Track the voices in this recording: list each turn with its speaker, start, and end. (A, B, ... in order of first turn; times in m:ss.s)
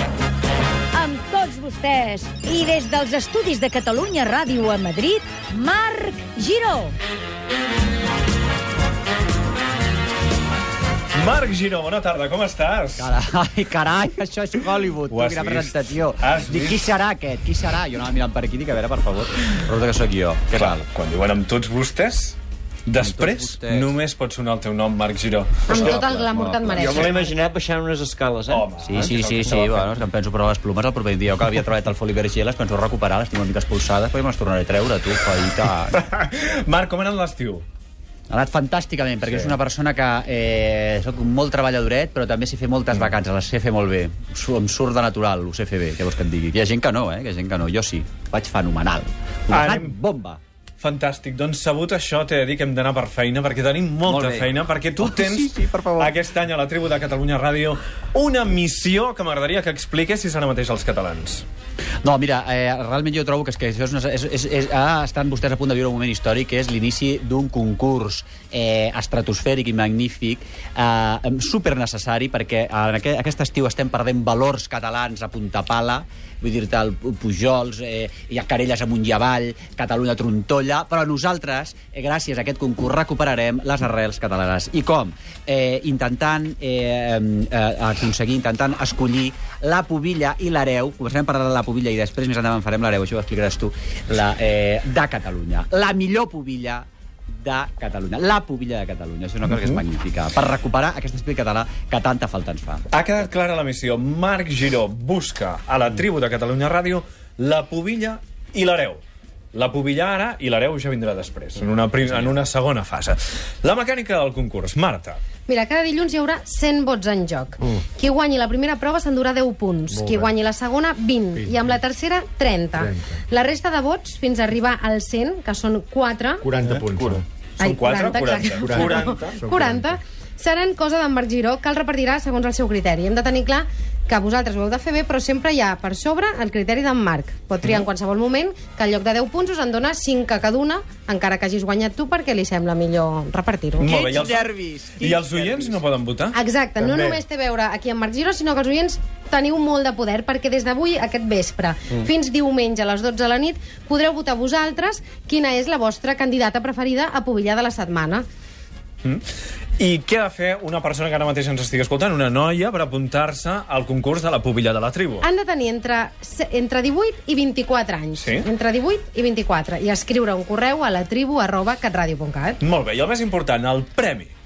0:00.9-0:06.9 A
0:11.1-0:13.1 B
0:13.0-0:20.8 C
0:15.1-0:16.8 B
0:20.5-0:26.1 B
0:23.0-0:23.8 C
0:25.7-0:27.3 D
0:25.7-0:29.9 E
0:28.5-0:29.1 B
0:28.8-0:36.0 C
0:35.9-0:37.6 B
0:38.3-0:50.4 C
0:39.2-0:39.5 B
0:49.5-0:49.9 B
0:50.8-1:01.4 B
0:54.0-0:56.1 C
1:02.0-1:42.9 C
1:39.5-1:39.8 B
1:42.9-1:49.0 B
1:49.5-1:55.2 B
1:55.5-2:06.5 D
1:59.9-2:00.3 F
2:02.8-2:03.2 F
2:06.4-2:07.2 F
2:06.7-2:09.4 B
2:07.6-2:23.9 D
2:08.6-2:09.9 F
2:23.8-2:25.8 C
2:23.8-2:26.4 B
2:26.3-2:38.2 D
2:26.8-2:27.2 F
2:39.8-2:45.3 B
2:45.2-2:52.6 D
2:48.1-2:48.5 B
2:52.6-2:54.3 B